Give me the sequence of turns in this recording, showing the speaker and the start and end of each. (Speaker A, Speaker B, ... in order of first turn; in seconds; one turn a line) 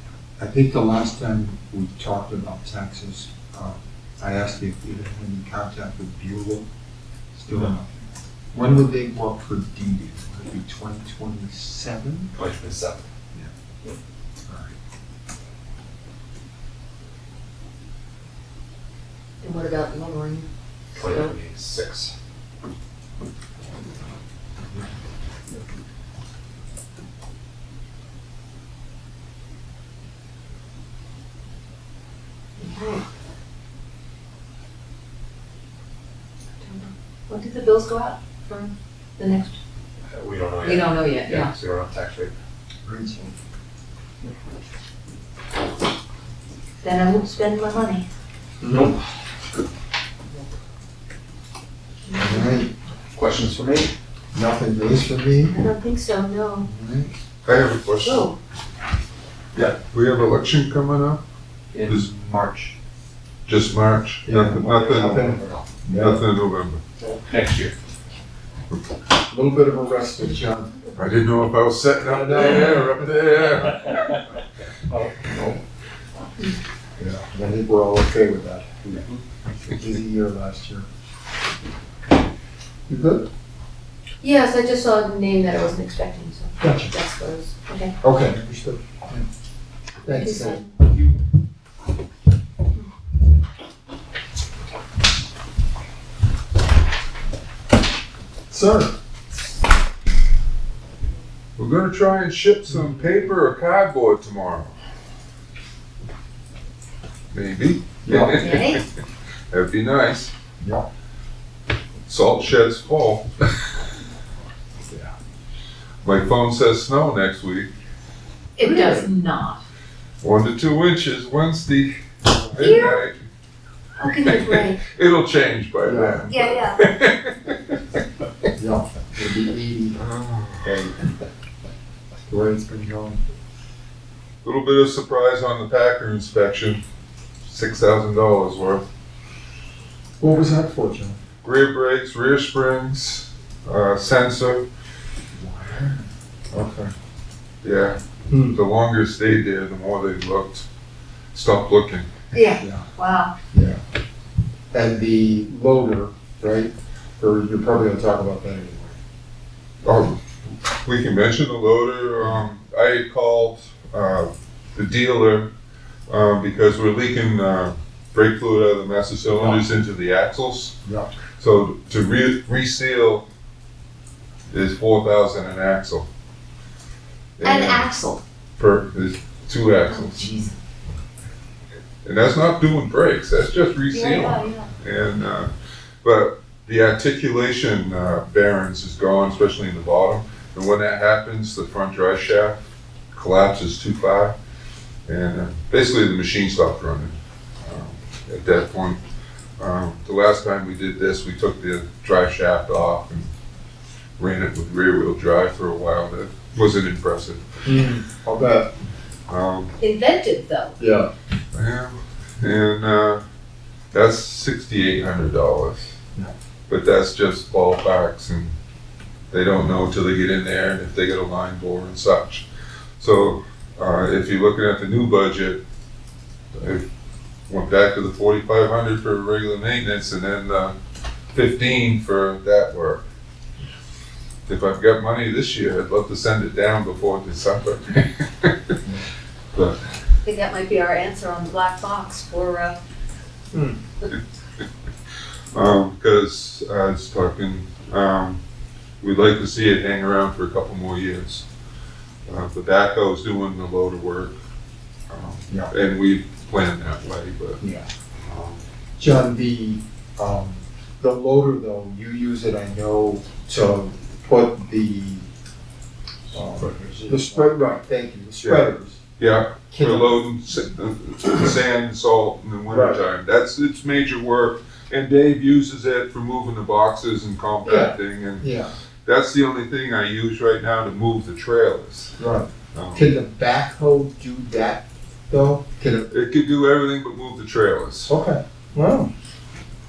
Speaker A: 0.4-6.7
Speaker A: 7.3-7.9
Speaker A: 8.5-12.3
Speaker B: 12.3-13.0
Speaker A: 14.5-14.7
Speaker C: 19.4-21.3
Speaker B: 20.9-22.1
Speaker C: 32.6-33.0
Speaker C: 36.6-39.6
Speaker B: 40.1-42.3
Speaker C: 40.6-41.5
Speaker A: 42.8-43.3
Speaker C: 46.8-48.0
Speaker A: 48.6-49.0
Speaker C: 52.1-52.6
Speaker A: 52.1-52.7
Speaker B: 53.1-53.9
Speaker A: 54.3-55.6
Speaker C: 55.5-56.7
Speaker A: 56.6-57.1
Speaker D: 57.4-58.3
Speaker C: 58.0-58.3
Speaker D: 59.9-61.2
Speaker A: 62.0-62.7
Speaker D: 63.5-65.3
Speaker A: 64.2-66.2
Speaker B: 64.5-65.6
Speaker D: 66.0-66.8
Speaker B: 67.2-67.7
Speaker A: 69.3-70.9
Speaker D: 71.0-74.0
Speaker A: 72.0-73.1
Speaker B: 74.9-75.6
Speaker A: 77.0-79.0
Speaker A: 79.6-80.8
Speaker A: 82.9-83.3
Speaker C: 84.2-87.9
Speaker A: 86.6-86.9
Speaker A: 88.0-89.2
Speaker A: 90.0-90.6
Speaker C: 90.1-90.8
Speaker A: 98.5-98.9
Speaker D: 101.6-104.7
Speaker A: 102.7-103.2
Speaker D: 107.3-108.8
Speaker A: 108.0-108.6
Speaker C: 108.3-108.8
Speaker D: 109.5-110.3
Speaker A: 110.6-110.8
Speaker D: 112.1-113.2
Speaker A: 114.9-115.1
Speaker D: 116.0-117.7
Speaker C: 118.6-119.6
Speaker A: 118.6-119.1
Speaker D: 120.2-123.2
Speaker C: 122.6-123.0
Speaker C: 124.0-124.8
Speaker D: 124.1-128.0
Speaker A: 125.8-126.3
Speaker C: 126.3-126.8
Speaker A: 128.6-130.0
Speaker D: 129.9-130.8
Speaker A: 130.6-130.9
Speaker A: 132.3-133.2
Speaker D: 134.4-136.8
Speaker D: 137.4-138.8
Speaker A: 140.2-141.2
Speaker D: 141.4-144.7
Speaker A: 145.3-146.9
Speaker D: 147.6-148.0
Speaker A: 148.3-148.6
Speaker D: 148.5-150.7
Speaker D: 151.3-152.1
Speaker C: 152.3-153.3
Speaker A: 152.6-152.9
Speaker A: 153.5-153.8
Speaker A: 154.7-159.0
Speaker D: 159.8-165.5
Speaker D: 166.1-170.8
Speaker A: 169.3-169.6
Speaker A: 170.8-171.1
Speaker D: 171.4-173.2
Speaker D: 174.5-176.1
Speaker D: 177.4-177.9
Speaker C: 177.4-178.2
Speaker D: 178.6-180.3
Speaker C: 179.9-180.5
Speaker D: 182.0-185.5
Speaker C: 183.9-184.7
Speaker D: 186.0-192.6
Speaker D: 193.1-194.3
Speaker D: 195.1-199.0
Speaker D: 199.6-203.3
Speaker D: 204.2-207.4
Speaker A: 207.6-208.7
Speaker D: 209.3-209.8
Speaker C: 209.8-210.8
Speaker A: 210.8-211.1
Speaker D: 211.5-213.2
Speaker D: 213.9-215.9
Speaker D: 216.7-218.5
Speaker D: 219.3-222.4
Speaker D: 223.0-225.6
Speaker D: 226.6-226.8
Speaker D: 227.5-230.7
Speaker D: 231.3-233.0
Speaker D: 234.5-238.7
Speaker C: 240.2-242.8
Speaker A: 243.5-243.8
Speaker D: 245.5-248.4
Speaker D: 249.0-251.4
Speaker D: 252.3-254.4
Speaker D: 255.1-257.6
Speaker A: 257.6-257.9
Speaker D: 258.3-258.6
Speaker A: 259.0-265.3
Speaker B: 266.3-267.2
Speaker A: 267.1-269.0
Speaker D: 268.4-278.5
Speaker A: 269.7-270.2
Speaker A: 272.7-273.0
Speaker A: 277.6-278.7
Speaker D: 279.0-282.2
Speaker A: 282.2-286.1
Speaker D: 282.7-283.1
Speaker D: 286.1-288.1
Speaker A: 288.1-289.1